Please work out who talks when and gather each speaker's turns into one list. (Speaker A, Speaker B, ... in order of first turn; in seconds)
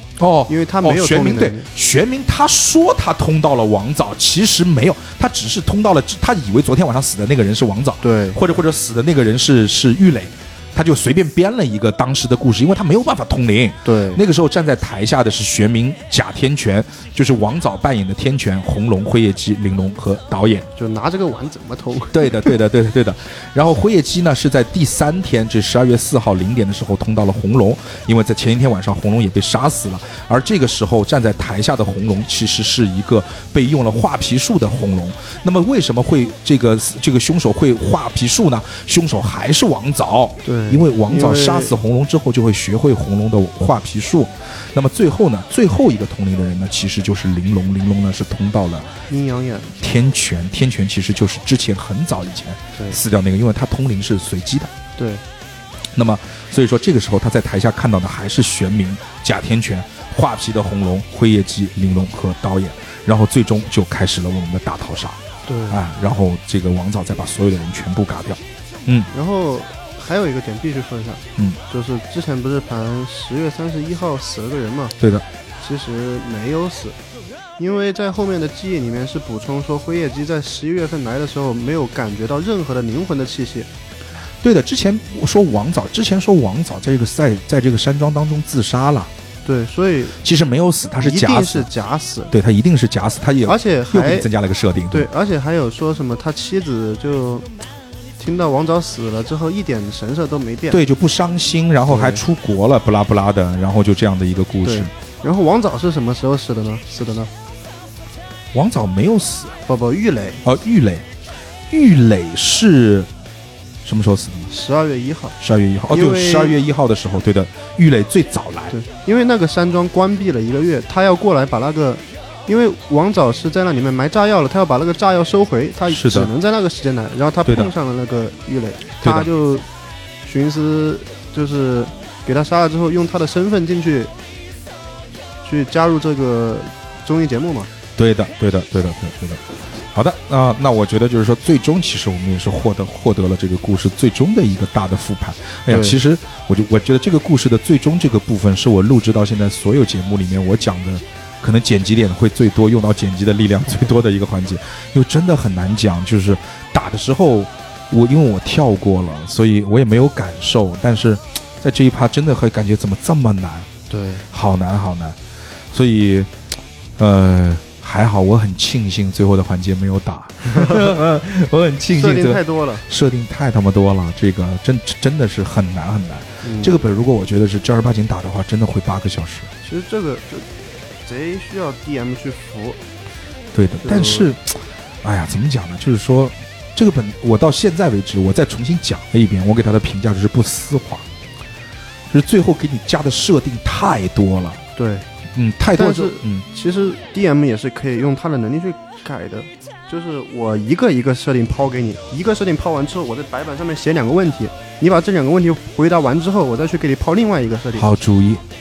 Speaker A: 0.2-20.7, 22.1-48.9, 49.8-54.7, 55.9-69.1, 75.0-75.2, 84.4-89.1, 90.2-91.7, 92.3-95.1, 100.7-104.9, 108.5-109.6, 110.4-111.1, 111.7-113.1, 113.8-114.5, 115.4-118.7, 125.9-126.3, 127.5-127.7, 129.0-129.3, 138.0-139.4, 139.9-163.7, 164.3-165.2, 165.7-166.3, 167.0-179.5, 183.5-191.1, 192.1-194.6, 195.3-196.5, 207.8-208.4
Speaker B: 0.5-1.7, 8.0-8.4, 13.8-14.2, 20.8-22.6, 40.4-41.8, 49.1-49.7, 55.0-55.2, 65.5-65.8, 69.1-75.0, 75.6-77.0, 77.6-83.7, 89.5-90.2, 91.0-92.3, 93.5-94.3, 94.9-97.5, 98.2-100.8, 101.9-102.2, 104.6-107.3, 109.7-110.4, 114.5-115.4, 115.9-116.6, 118.7-129.7, 130.2-134.1, 135.4-137.7, 145.7-146.0, 163.9-164.2, 171.9-172.8, 176.4-176.8, 179.6-180.5, 181.1-182.8, 183.8-184.3, 194.8-195.1, 195.7-207.9